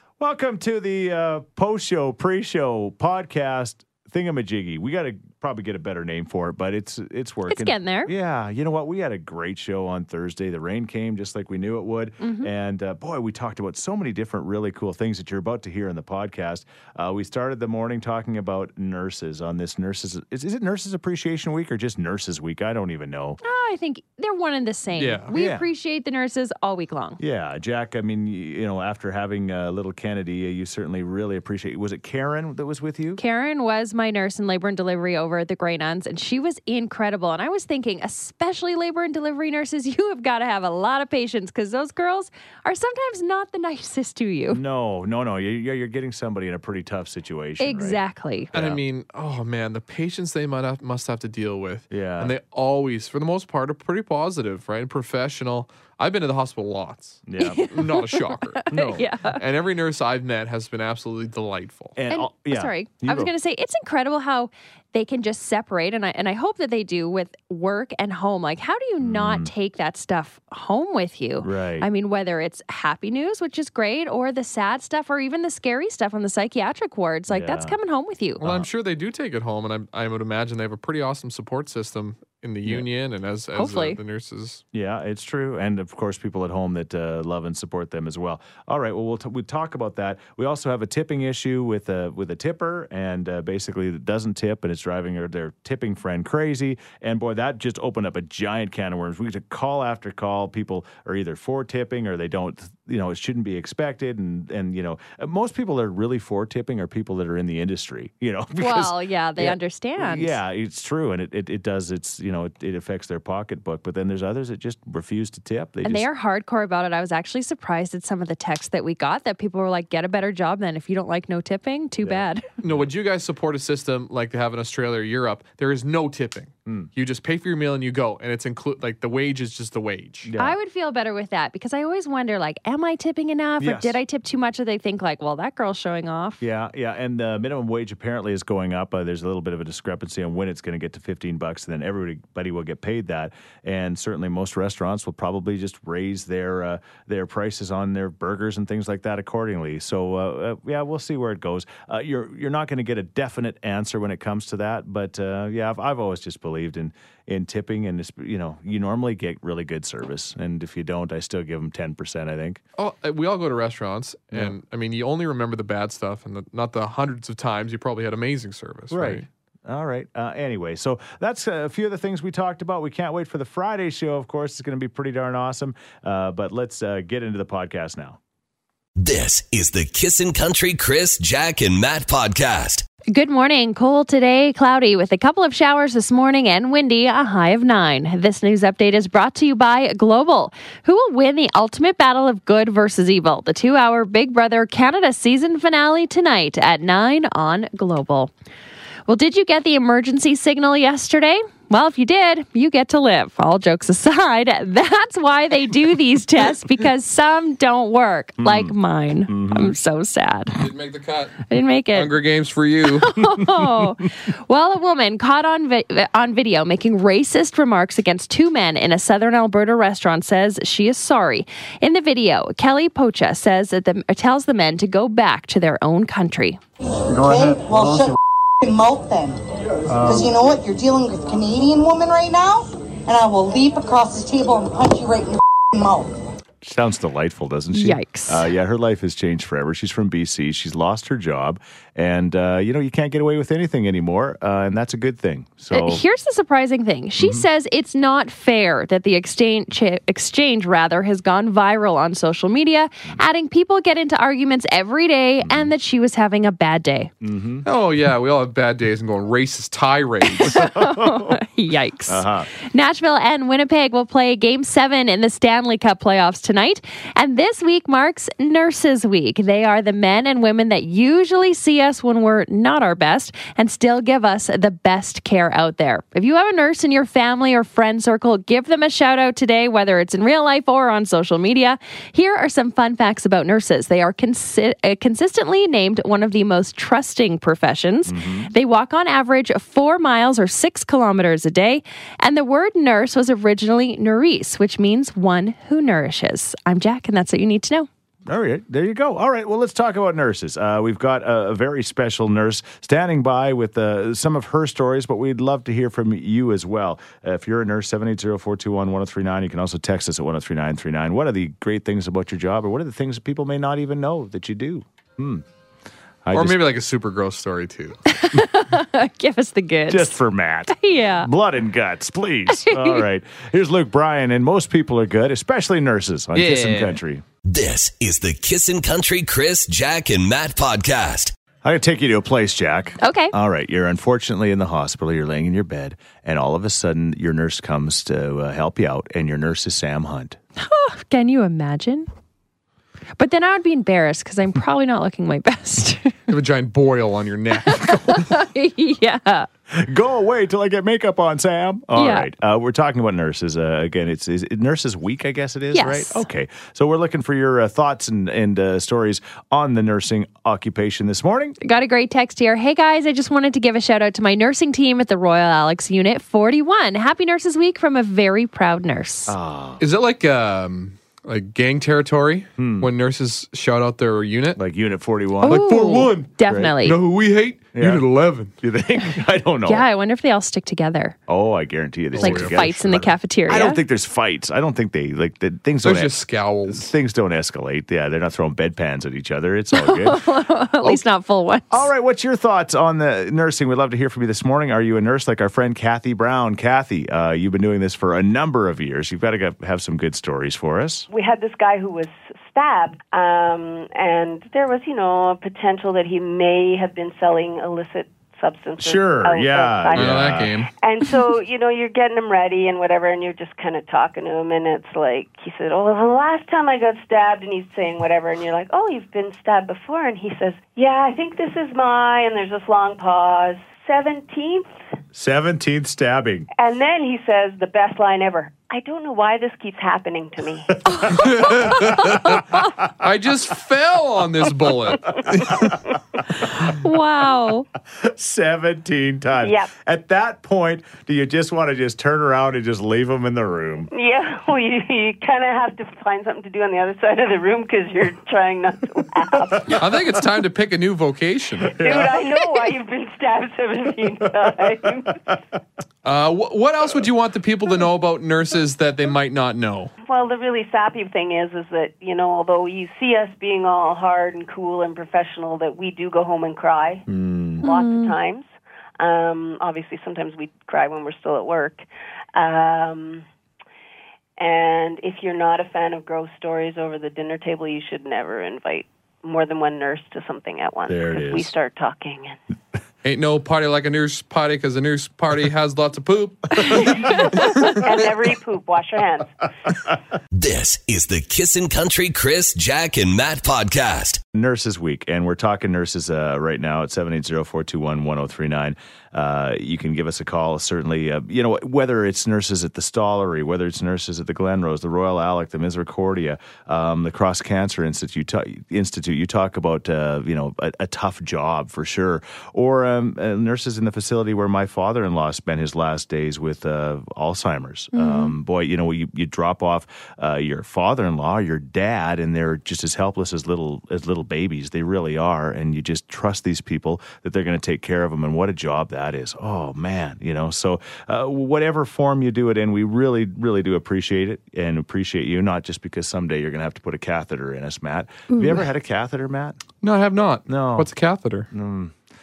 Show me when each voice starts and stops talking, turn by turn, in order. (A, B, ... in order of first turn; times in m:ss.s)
0:00.2-0:23.4 A
0:07.5-0:08.1 B
0:12.2-0:12.5 B
0:23.4-0:27.2 B
0:25.0-0:25.3 C
0:25.3-0:25.7 A
0:27.2-0:33.2 A
0:33.2-0:44.6 B
0:44.5-0:48.0 A
0:47.6-0:48.5 B
0:48.5-0:48.8 A
0:48.5-1:02.0 C
0:51.9-0:52.3 A
0:57.3-0:57.7 A
0:57.4-0:59.4 B
1:02.0-1:03.3 A
1:02.1-1:18.4 B
1:09.0-1:09.5 A
1:11.4-1:11.9 A
1:17.3-1:17.8 A
1:18.4-1:24.6 C
1:23.6-1:24.0 B
1:24.7-1:56.1 A
1:48.6-1:50.4 B
1:55.8-2:02.4 B
2:02.0-2:02.9 A
2:02.6-2:10.3 C
2:10.2-2:10.6 A
2:10.4-2:16.4 B
2:13.6-2:14.0 A
2:16.4-2:42.6 A
2:42.8-2:49.2 C
2:48.9-2:58.2 A
2:59.0-3:02.8 D
3:03.1-3:18.3 B
3:19.1-3:30.6 B
3:28.4-3:28.7 A
3:29.3-3:29.8 A
3:30.6-3:33.2 C
3:31.5-3:32.1 B
3:33.0-3:46.6 B
3:47.1-3:56.2 E
3:56.6-4:06.0 A
3:57.7-3:58.5 B
4:05.7-4:17.1 B
4:07.2-4:07.5 A
4:15.4-4:15.7 A
4:17.2-4:17.7 A
4:17.6-4:20.6 C
4:20.2-4:57.9 B
4:20.4-4:21.4 A
4:22.1-4:22.5 A
4:48.1-4:48.5 A
4:58.2-5:15.4 A
5:16.2-5:16.6 A
5:16.3-5:18.0 C
5:18.1-5:21.3 B
5:19.9-5:27.2 A
5:22.5-5:23.0 B
5:26.4-5:27.0 C
5:27.4-5:31.3 D
5:31.6-5:40.4 A
5:33.0-5:33.3 B
5:40.6-5:42.1 B
5:43.2-5:46.2 B
5:46.3-5:48.4 C
5:47.7-5:49.5 B
5:49.7-6:01.6 A
5:52.0-5:52.3 B
5:55.7-5:56.2 B
6:01.6-6:09.4 B
6:09.3-6:09.8 A
6:09.8-6:14.6 C
6:12.6-6:12.9 A
6:14.6-6:15.7 A
6:15.4-6:17.0 B
6:15.4-6:18.5 C
6:16.4-6:16.8 A
6:17.8-6:18.1 A
6:18.6-6:19.9 A
6:19.7-6:21.2 B
6:21.3-6:30.2 A
6:22.1-6:22.6 C
6:22.2-6:23.8 B
6:25.8-6:26.9 C
6:29.7-6:31.9 B
6:31.7-6:41.1 A
6:41.1-7:04.8 F
6:48.8-6:50.5 A
6:49.9-6:50.7 C
7:05.1-7:06.5 A
7:06.6-7:10.8 F
7:10.9-7:11.2 B
7:11.1-7:12.2 C
7:11.7-7:12.4 B
7:13.0-7:15.8 C
7:16.4-7:17.7 B
7:18.0-7:23.9 A
7:19.4-7:19.7 F
7:23.9-7:29.8 F
7:29.5-7:29.8 A
7:29.8-7:31.8 C
7:31.8-7:35.2 F
7:31.8-7:32.2 A
7:36.0-7:39.9 C
7:40.1-7:47.0 F
7:47.1-7:47.6 A
7:47.6-7:53.2 F
7:47.6-7:48.1 B
7:54.4-8:02.4 F
8:00.9-8:01.5 A
8:03.0-8:07.4 C
8:07.6-8:09.3 F
8:10.3-8:14.2 D
8:14.3-8:59.6 A
8:37.9-8:38.4 B
8:58.3-8:58.6 B
8:59.8-9:01.5 C
9:00.5-9:00.9 A
9:01.5-9:01.9 A